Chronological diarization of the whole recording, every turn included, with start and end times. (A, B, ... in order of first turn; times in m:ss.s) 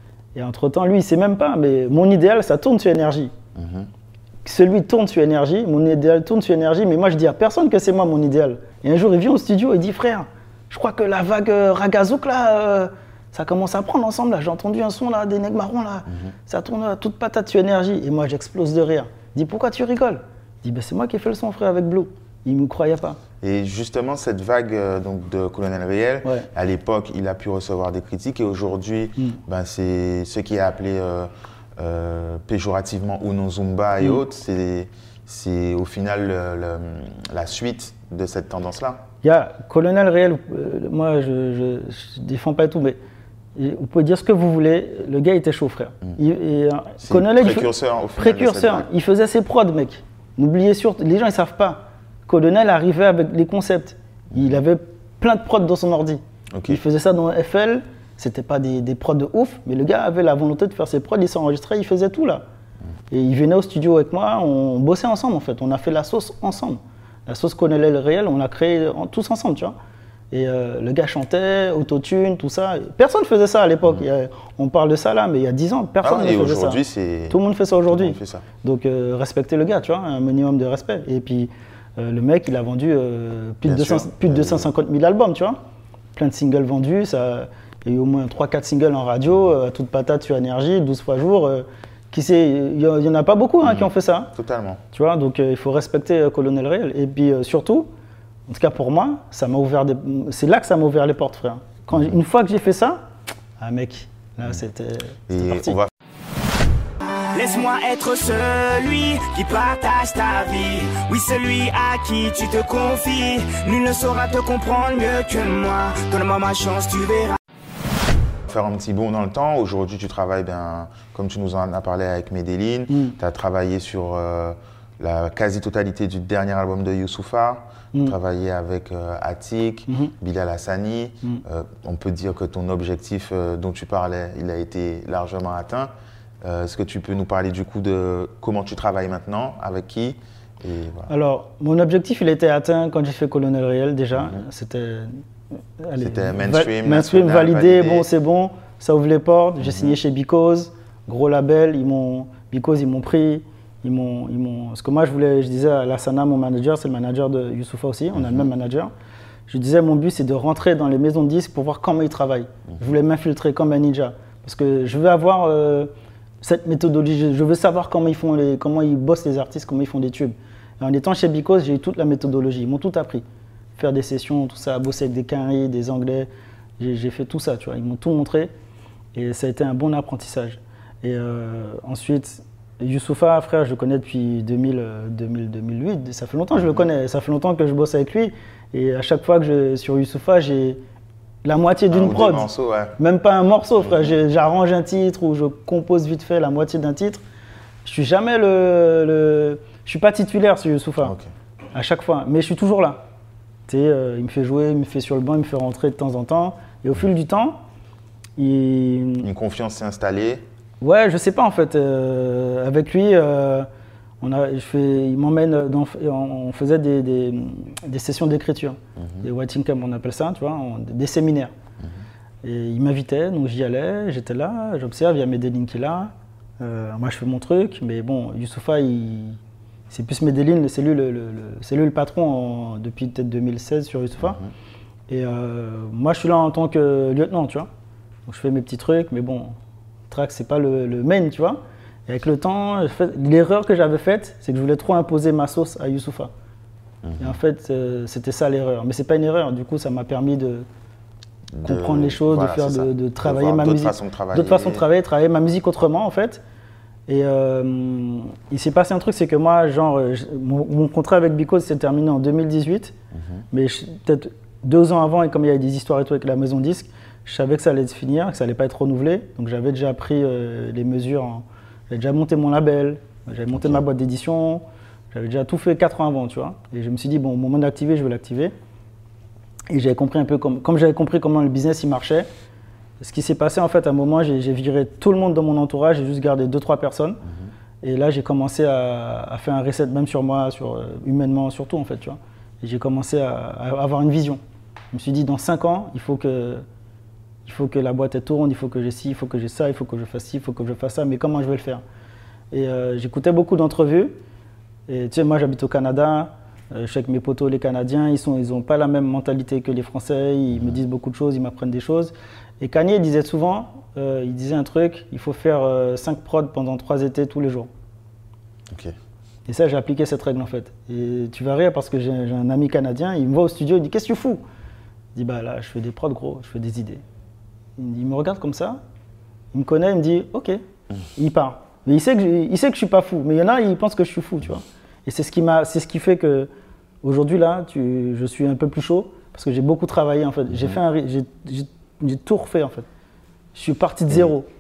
0:00.4-0:03.3 A
0:03.6-0:03.9 B
0:04.4-0:23.2 A
0:23.4-0:39.0 B
0:39.2-0:43.0 A
0:43.6-1:02.4 A
0:47.0-0:48.9 B
0:56.5-0:56.8 B
1:03.1-1:09.8 A
1:10.3-1:25.6 A
1:16.0-1:18.4 B
1:23.6-1:24.6 B
1:26.2-1:34.3 A
1:33.6-1:34.8 B
1:34.9-1:37.9 A
1:38.5-1:43.0 A
1:43.6-1:45.8 A
1:45.3-1:45.9 B
1:47.3-1:57.4 C
1:58.5-2:15.9 B
2:02.9-2:03.2 A
2:16.4-2:21.1 B
2:21.1-2:25.2 A
2:25.8-2:38.9 A
2:26.0-2:28.1 B
2:39.5-2:53.2 A
2:53.8-2:58.5 A
2:59.1-3:10.8 A
3:11.4-3:17.2 A
3:11.9-3:13.0 B
3:17.8-3:21.2 A
3:21.0-3:21.3 B
3:21.7-3:23.0 A
3:23.7-3:27.6 A
3:28.4-3:29.3 A
3:29.2-3:30.4 B
3:30.8-3:33.7 A
3:34.2-3:41.5 A
3:42.4-3:49.4 A
3:49.9-3:54.4 A
3:55.1-3:57.7 A
3:58.3-3:59.5 A
4:00.1-4:06.3 A
4:07.0-4:07.4 B
4:07.2-4:10.7 A
4:11.5-4:14.8 B
4:11.6-4:16.4 A
4:17.1-4:23.0 A
4:23.5-4:38.5 A
4:39.7-4:42.3 A
4:43.0-4:47.2 A
4:47.8-4:54.4 A
4:54.9-4:56.6 A
4:57.4-5:01.8 A
5:02.5-5:04.2 A
5:04.9-5:17.7 A
5:18.7-5:19.0 B
5:19.5-5:24.4 A
5:25.2-5:27.0 A
5:27.8-5:28.8 A
5:29.5-5:30.6 A
5:31.2-5:36.5 A
5:37.0-5:42.9 A
5:43.5-5:44.5 A